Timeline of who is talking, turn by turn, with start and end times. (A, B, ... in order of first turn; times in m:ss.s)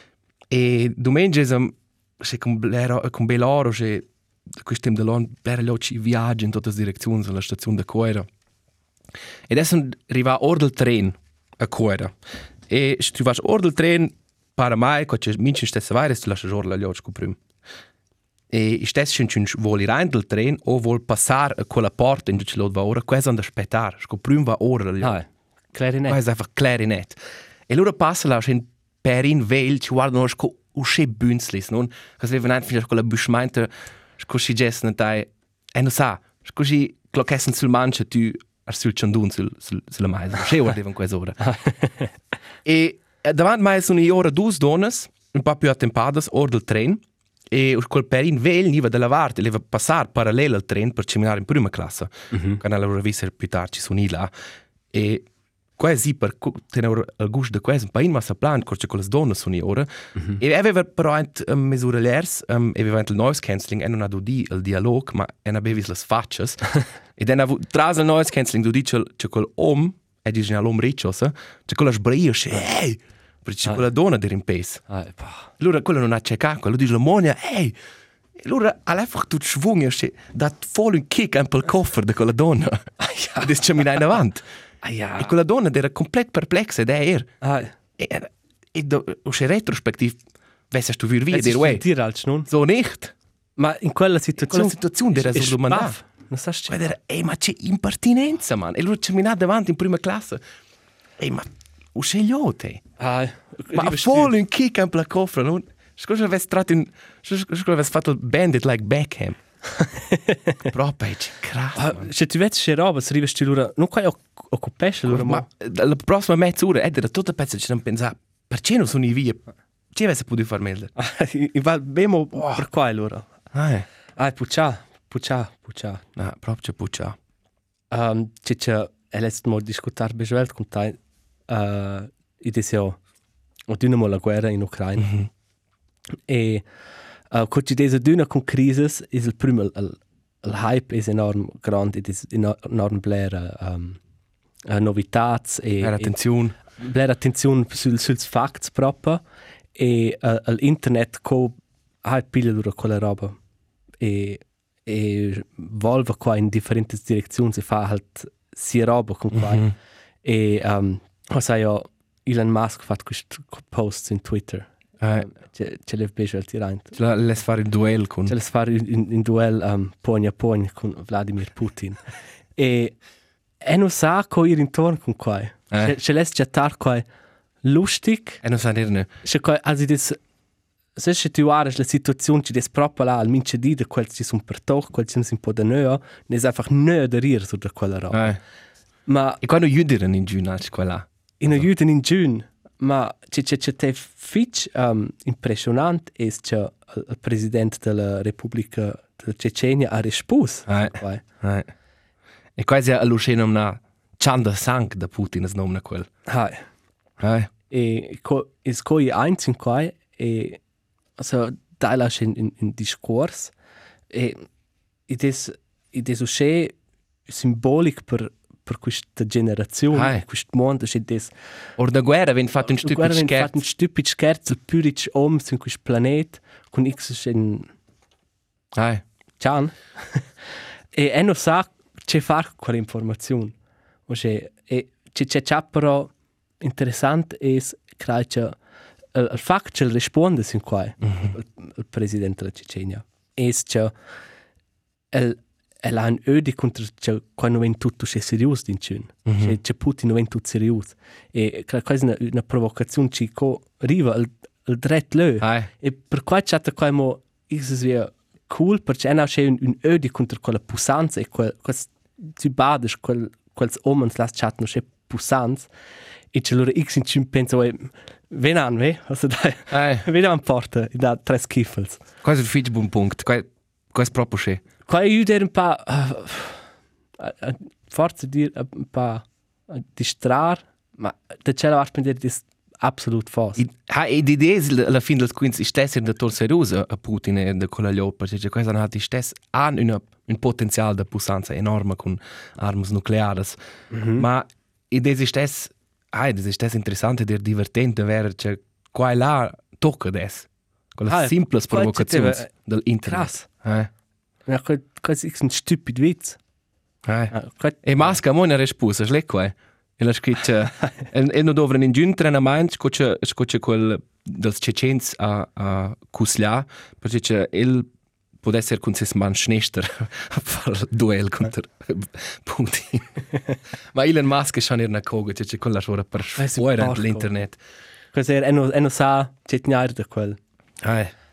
0:00.5-0:08.3 A
0:09.5-0:12.1 A
0:12.7-0:17.4 A
0:18.5-0:25.2 A
0:25.0-0:26.2 B
0:26.1-0:41.4 A
0:41.4-0:42.1 B
0:42.6-0:54.3 A
0:52.3-0:52.6 B
0:54.9-0:55.3 A
0:55.8-1:14.8 A
1:14.9-1:15.5 B
1:15.6-1:17.8 A
1:18.4-1:22.8 A
1:23.0-1:23.5 B
1:23.4-1:24.4 A
1:24.8-1:25.3 B
1:25.2-1:27.3 A
1:27.4-1:27.7 B
1:28.0-1:30.2 A
1:30.7-1:31.8 A
1:31.3-1:32.5 B
1:32.5-1:33.1 A
1:33.6-1:36.8 B
1:34.4-1:36.0 A
1:36.7-1:40.4 A
1:41.2-1:42.8 A
1:43.0-1:44.3 B
1:43.7-1:49.4 A
1:49.9-1:50.6 B
1:50.6-1:52.1 A
1:51.8-1:55.4 B
1:55.1-2:00.9 A
2:01.0-2:03.3 B
2:02.4-2:02.6 A
2:03.5-2:03.9 A
2:04.2-2:06.0 B
2:06.2-2:07.2 A
2:07.9-2:11.0 B
2:11.5-2:13.0 B
2:13.7-2:15.1 B
2:15.0-2:15.3 A
2:16.3-2:16.7 B
2:17.3-2:24.0 B
2:24.7-2:26.1 B
2:25.8-2:26.6 A
2:26.8-2:29.2 B
2:29.8-2:33.4 B
2:34.0-2:39.7 B
2:39.3-2:39.7 A
2:40.2-2:47.0 B
2:45.0-2:45.3 A
2:46.9-2:48.4 A
2:48.3-2:52.0 B
2:52.6-2:53.0 B
2:53.6-2:57.0 B
2:57.6-2:58.4 B
2:58.4-2:59.1 A
2:59.2-3:00.2 B
3:01.0-3:08.4 B
3:08.1-3:08.4 A
3:09.1-3:09.4 B
3:09.4-3:11.6 A
3:11.4-3:21.2 B
3:20.7-3:21.7 A
3:22.6-3:26.1 A
3:26.3-3:26.7 B
3:27.2-3:27.5 A
3:27.7-3:30.6 B
3:31.2-3:33.5 B
3:34.1-3:34.4 B
3:35.1-3:36.7 B
3:37.3-3:41.3 B
3:39.9-3:40.2 A
3:41.8-3:43.6 A
3:42.8-3:47.7 B
3:48.8-3:49.0 A
3:49.4-3:50.3 B
3:50.9-3:53.5 B
3:54.1-3:58.6 B
3:59.1-4:03.9 B
4:01.0-4:01.3 A
4:05.1-4:25.7 B
4:09.3-4:09.6 A
4:15.4-4:15.7 A
4:26.3-4:32.0 B
4:29.7-4:30.0 A
4:32.2-4:34.6 A
4:34.9-4:36.7 B
4:37.2-4:43.6 B
4:43.6-4:53.6 A
4:53.9-4:54.3 B
4:54.2-5:03.9 A
5:01.1-5:02.5 B
5:03.0-5:03.5 B
5:04.5-5:06.4 B
5:07.0-5:17.9 A
5:07.3-5:07.8 B
5:18.4-5:23.2 A
5:23.9-5:27.6 A
5:26.4-5:27.3 B
5:28.1-5:30.4 B
5:30.8-5:31.1 A